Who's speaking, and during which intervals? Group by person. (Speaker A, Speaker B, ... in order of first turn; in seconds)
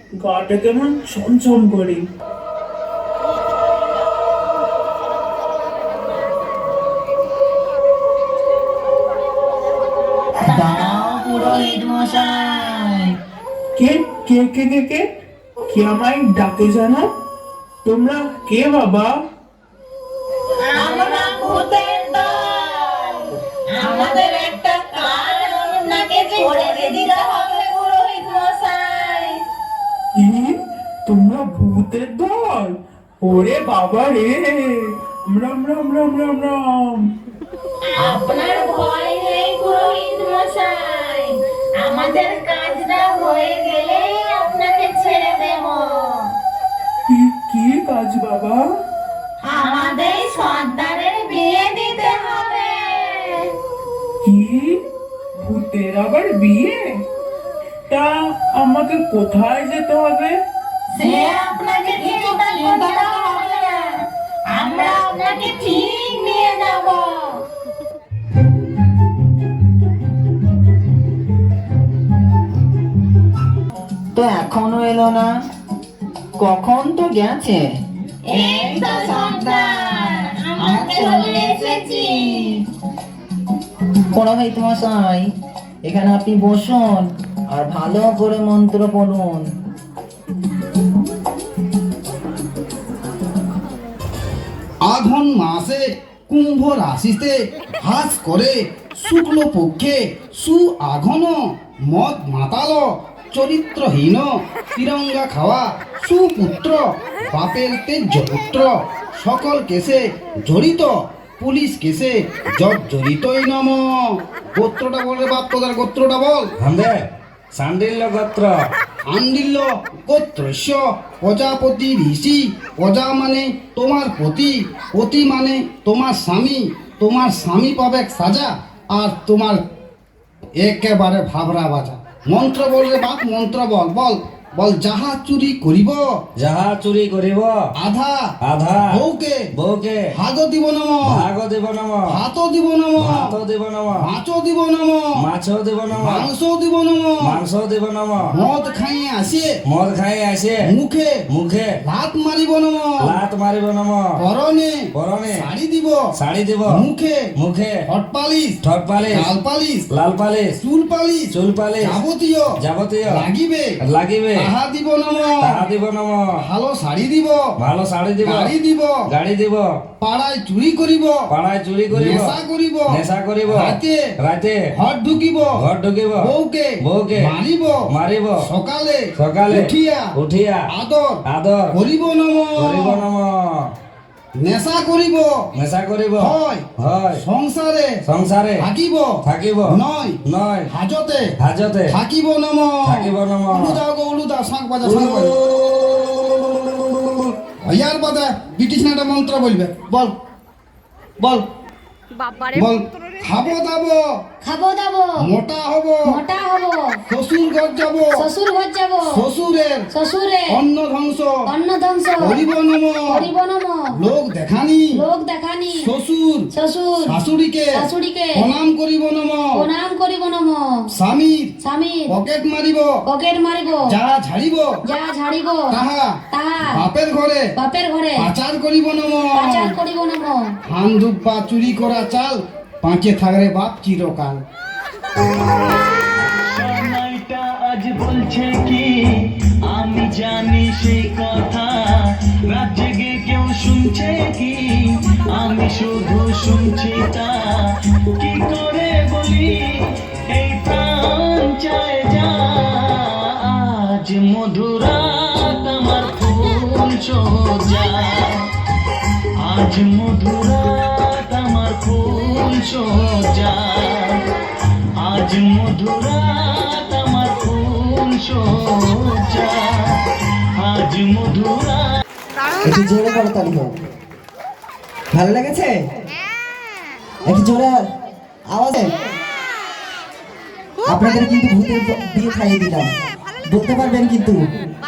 Speaker A: 0.2-2.0, 13.8-15.0, 15.7-17.1, 17.9-19.2, 30.2-30.6, 31.1-37.0, 47.1-48.6, 54.2-54.8, 55.4-57.0, 57.9-60.4
Speaker B: 10.5-13.1, 20.8-21.6, 23.9-24.3, 62.4-62.9, 74.1-75.3, 76.4-77.7, 78.3-82.6, 84.1-85.3, 85.8-89.5
Speaker C: 20.6-22.2, 23.8-29.3, 37.9-46.3, 49.4-53.5, 61.0-63.9, 64.5-67.4, 78.3-82.6
Speaker D: 94.8-101.4, 101.9-116.5, 119.1-129.6, 130.6-136.0, 137.8-138.2, 138.9-139.4, 140.2-141.2, 142.1-143.4, 144.0-145.0, 146.0-147.4, 148.3-149.5, 150.7-151.1, 151.8-153.1, 154.2-154.7, 155.3-156.0, 156.7-157.2, 157.9-159.8, 160.6-162.5, 163.1-163.7, 164.4-165.6, 166.4-167.4, 168.2-168.9, 170.0-171.2, 171.9-174.0, 174.8-175.6, 176.2-177.9, 178.4-180.1, 180.7-181.2, 181.7-183.0, 184.4-185.3, 186.2-187.9, 188.6-189.1, 189.7-191.3, 191.9-195.4, 197.5-200.1, 202.5-204.0, 205.2-206.2, 207.1-208.3, 209.0-209.9, 210.5-211.3, 212.2-213.3, 213.9-215.0, 215.7-216.5, 217.0-219.7, 220.9-221.5, 222.1-222.9, 223.9-224.7, 225.7-227.4, 228.2-229.8, 230.7-234.4
Speaker E: 116.6-117.0, 117.5-118.5, 136.4-137.5, 138.4-139.0, 139.6-140.1, 141.1-142.2, 143.0-144.1, 145.2-146.3, 147.2-148.3, 149.7-150.7, 151.3-151.8, 153.1-154.1, 155.0-155.5, 156.2-156.8, 157.4-157.8, 158.6-159.3, 159.9-160.6, 161.3-162.0, 162.6-163.3, 163.9-164.5, 165.4-166.2, 167.6-168.5, 169.1-169.7, 171.3-172.4, 172.9-174.6, 175.6-176.3, 176.8-177.3, 177.9-178.4, 179.2-180.7, 181.3-181.8, 182.6-183.7, 185.6-187.2, 188.1-188.7, 189.3-190.7, 191.4-191.9, 192.8-193.8, 194.8-196.3
Speaker F: 204.4-205.1, 206.1-207.0, 208.2-209.2, 209.9-210.6, 211.5-212.4, 213.1-213.8, 215.0-215.9, 216.5-217.2, 217.8-218.4, 219.5-220.8, 221.6-222.1, 223.1-223.9, 224.9-225.7, 226.3-226.8, 227.6-228.3, 229.3-230.5
Speaker G: 236.5-238.9, 239.7-241.8, 242.5-244.6, 245.3-247.4, 248.2-249.7, 250.3-258.4, 259.4-264.2, 265.0-270.0, 270.6-271.8
Speaker H: 272.6-273.8, 275.1-275.9, 277.2-277.9, 278.5-279.1, 280.9-282.9, 283.5-284.4